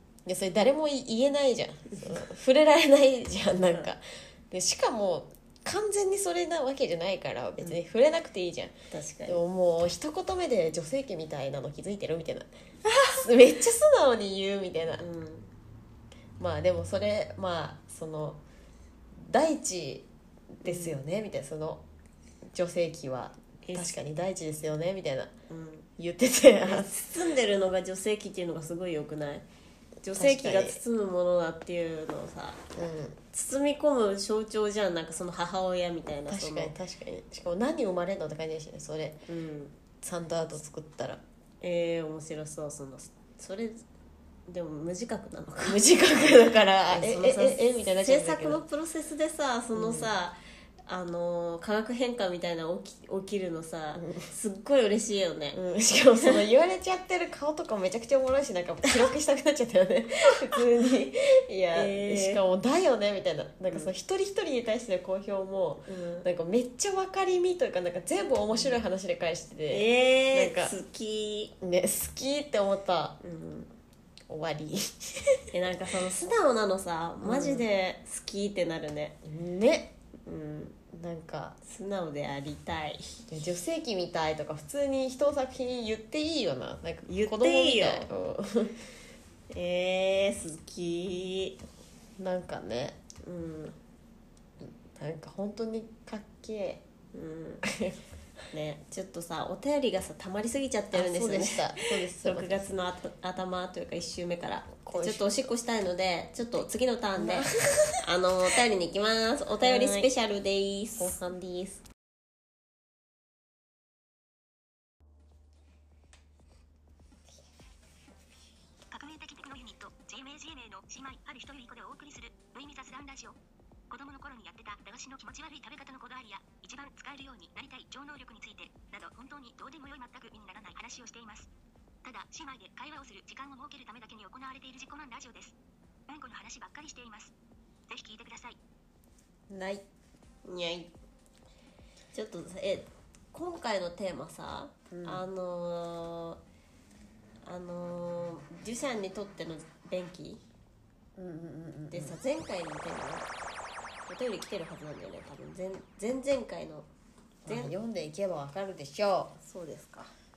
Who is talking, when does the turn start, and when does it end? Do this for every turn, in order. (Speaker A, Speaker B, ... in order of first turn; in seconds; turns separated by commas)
Speaker A: 0.2-8.7, Speaker B: 8.9-9.4, Speaker A: 9.3-15.0, Speaker B: 15.0-15.5, Speaker A: 16.4-18.4, Speaker A: 19.2-20.1, Speaker A: 20.6-21.8, Speaker B: 20.6-21.0, Speaker A: 22.5-25.3, Speaker B: 23.6-24.0, Speaker B: 25.5-25.9, Speaker A: 26.0-26.9, Speaker B: 26.6-29.4, Speaker B: 30.0-32.6, Speaker A: 30.1-30.8, Speaker A: 32.7-33.2, Speaker B: 33.3-36.7, Speaker A: 36.3-39.2, Speaker B: 39.3-39.7, Speaker A: 40.0-41.2, Speaker B: 41.6-43.8, Speaker B: 44.5-45.8, Speaker A: 45.6-48.6, Speaker B: 46.9-55.6, Speaker A: 49.7-50.1, Speaker A: 55.5-70.7, Speaker B: 61.7-62.4, Speaker B: 65.9-66.2, Speaker B: 69.7-71.5, Speaker A: 71.6-73.2, Speaker B: 73.2-73.7, Speaker A: 74.3-75.4, Speaker B: 75.5-79.2, Speaker A: 77.2-77.7, Speaker A: 79.2-79.9, Speaker B: 80.2-80.8, Speaker A: 80.9-81.6, Speaker B: 81.6-83.2, Speaker A: 83.3-88.8, Speaker B: 87.1-88.1, Speaker B: 89.5-91.6, Speaker A: 92.2-93.0, Speaker B: 93.2-93.8, Speaker A: 94.6-96.8, Speaker B: 97.1-97.6, Speaker A: 97.6-98.0, Speaker B: 98.5-107.5, Speaker A: 100.9-102.6, Speaker A: 104.8-105.5, Speaker A: 107.2-108.0, Speaker B: 108.0-111.2, Speaker A: 109.6-110.1, Speaker A: 111.0-111.8, Speaker C: 118.9-123.3, Speaker C: 123.9-131.5, Speaker C: 132.0-135.5, Speaker C: 136.1-137.3, Speaker C: 137.9-138.6, Speaker A: 139.5-139.8, Speaker B: 140.4-140.9, Speaker B: 142.1-146.4, Speaker A: 144.9-145.2, Speaker B: 147.4-150.4, Speaker A: 151.2-152.2, Speaker B: 151.9-153.3, Speaker B: 154.1-156.9, Speaker A: 157.4-159.4, Speaker B: 157.5-157.7, Speaker B: 159.4-160.1